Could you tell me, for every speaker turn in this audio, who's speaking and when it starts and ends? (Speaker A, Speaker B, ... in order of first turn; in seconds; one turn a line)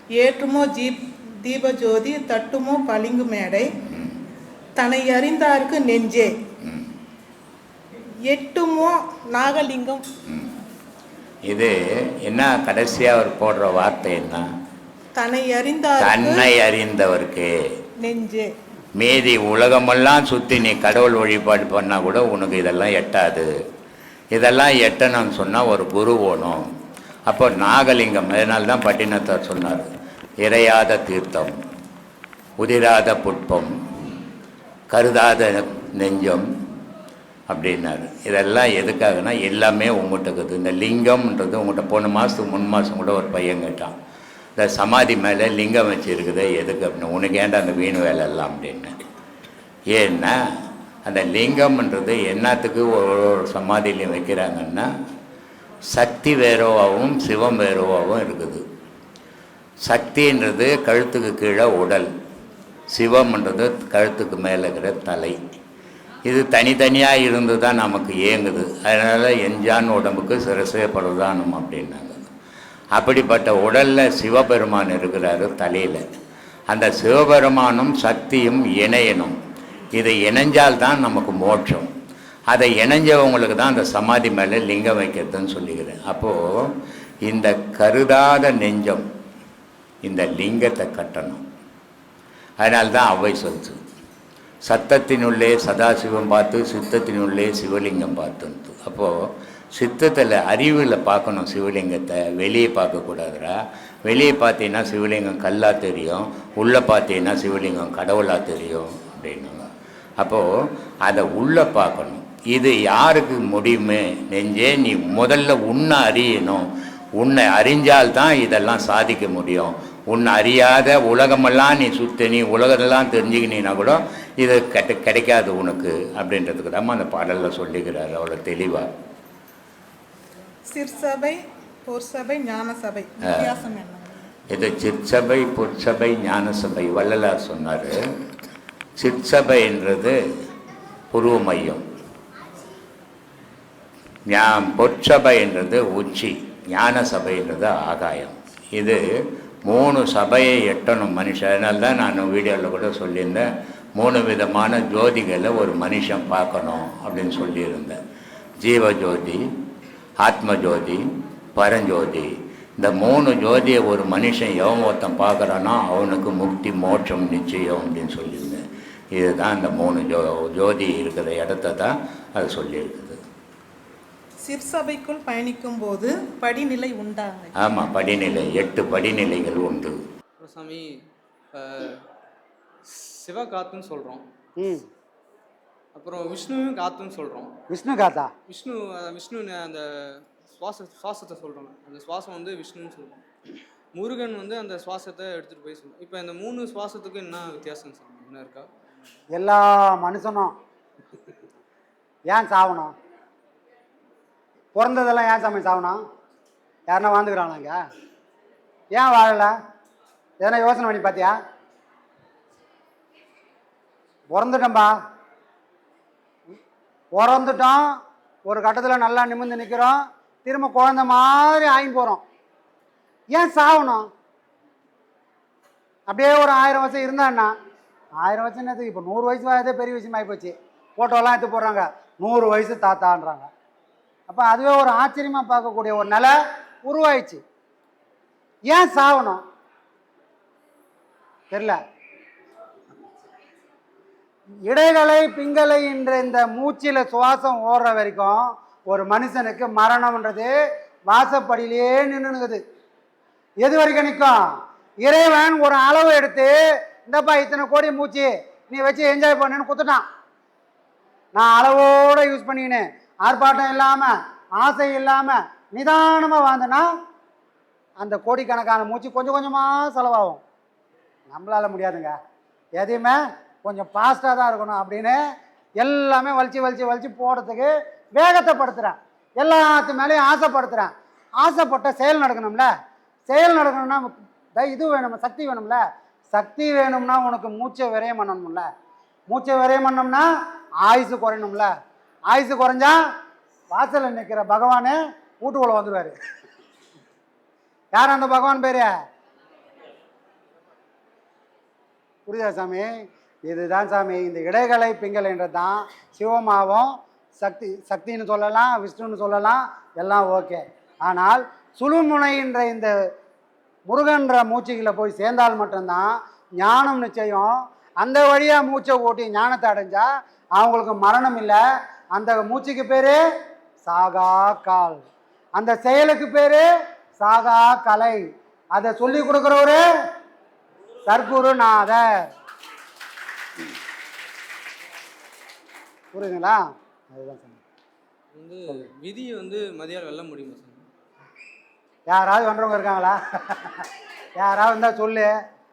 Speaker A: 0.2-3.6
Speaker B: 3.9-4.2
Speaker A: 4.8-6.3
Speaker B: 6.6-6.9
Speaker A: 8.3-10.0
Speaker B: 10.3-10.6
Speaker B: 11.5-14.4
Speaker A: 15.1-16.4
Speaker B: 16.0-17.5
Speaker A: 18.0-18.5
Speaker B: 19.0-23.5
Speaker B: 24.3-26.6
Speaker B: 27.3-29.9
Speaker B: 30.4-31.5
Speaker B: 32.6-33.7
Speaker B: 34.9-36.4
Speaker B: 37.5-43.9
Speaker B: 44.6-48.9
Speaker B: 49.9-50.3
Speaker B: 51.0-54.9
Speaker B: 55.9-58.6
Speaker B: 59.8-62.1
Speaker B: 62.9-65.4
Speaker B: 66.2-72.2
Speaker B: 72.9-76.0
Speaker B: 76.7-79.3
Speaker B: 80.0-81.9
Speaker B: 82.5-86.4
Speaker B: 87.2-89.0
Speaker B: 90.0-91.4
Speaker B: 92.6-93.8
Speaker B: 94.7-99.1
Speaker B: 99.7-103.5
Speaker B: 104.0-109.6
Speaker B: 110.2-110.4
Speaker B: 111.0-116.7
Speaker B: 117.2-128.9
Speaker A: 130.7-134.2
Speaker B: 134.5-138.0
Speaker B: 139.0-140.1
Speaker B: 141.1-141.8
Speaker B: 144.3-149.0
Speaker B: 149.6-158.0
Speaker B: 158.6-159.4
Speaker B: 160.2-161.0
Speaker B: 161.6-168.6
Speaker B: 169.1-173.2
Speaker A: 174.4-177.5
Speaker B: 177.6-180.0
Speaker C: 180.4-180.8
Speaker C: 181.5-182.0
Speaker C: 182.9-184.2
Speaker D: 184.6-184.8
Speaker C: 185.9-187.5
Speaker D: 187.7-188.3
Speaker C: 188.5-189.8
Speaker C: 190.5-193.2
Speaker C: 193.9-198.7
Speaker D: 199.3-200.5
Speaker D: 202.3-202.9
Speaker D: 204.7-206.0
Speaker D: 206.9-207.8
Speaker D: 208.9-209.5
Speaker D: 210.4-211.3
Speaker D: 214.3-214.9
Speaker D: 217.1-217.9
Speaker D: 218.4-222.2
Speaker D: 223.3-224.1
Speaker D: 226.1-227.5
Speaker D: 228.2-233.5
Speaker D: 234.3-237.4
Speaker D: 238.7-239.4
Speaker D: 241.5-241.8
Speaker D: 244.7-250.5
Speaker D: 251.1-252.6
Speaker D: 253.6-254.4
Speaker D: 255.0-256.5
Speaker D: 257.1-260.0
Speaker D: 261.3-266.9
Speaker D: 268.0-270.4
Speaker D: 271.3-272.1
Speaker D: 272.8-275.2
Speaker D: 275.8-282.7
Speaker D: 283.3-288.6
Speaker D: 289.3-290.2
Speaker D: 290.8-291.7
Speaker D: 292.3-293.0
Speaker D: 293.7-296.1
Speaker D: 297.9-298.9
Speaker D: 302.2-302.9
Speaker D: 303.4-312.9
Speaker D: 313.9-321.6
Speaker D: 322.1-323.2
Speaker D: 323.8-325.0
Speaker D: 325.6-326.6
Speaker D: 327.2-328.2
Speaker D: 328.7-329.8
Speaker D: 331.1-332.1
Speaker D: 336.1-337.6
Speaker C: 338.3-340.8
Speaker D: 342.1-343.8
Speaker D: 344.4-345.3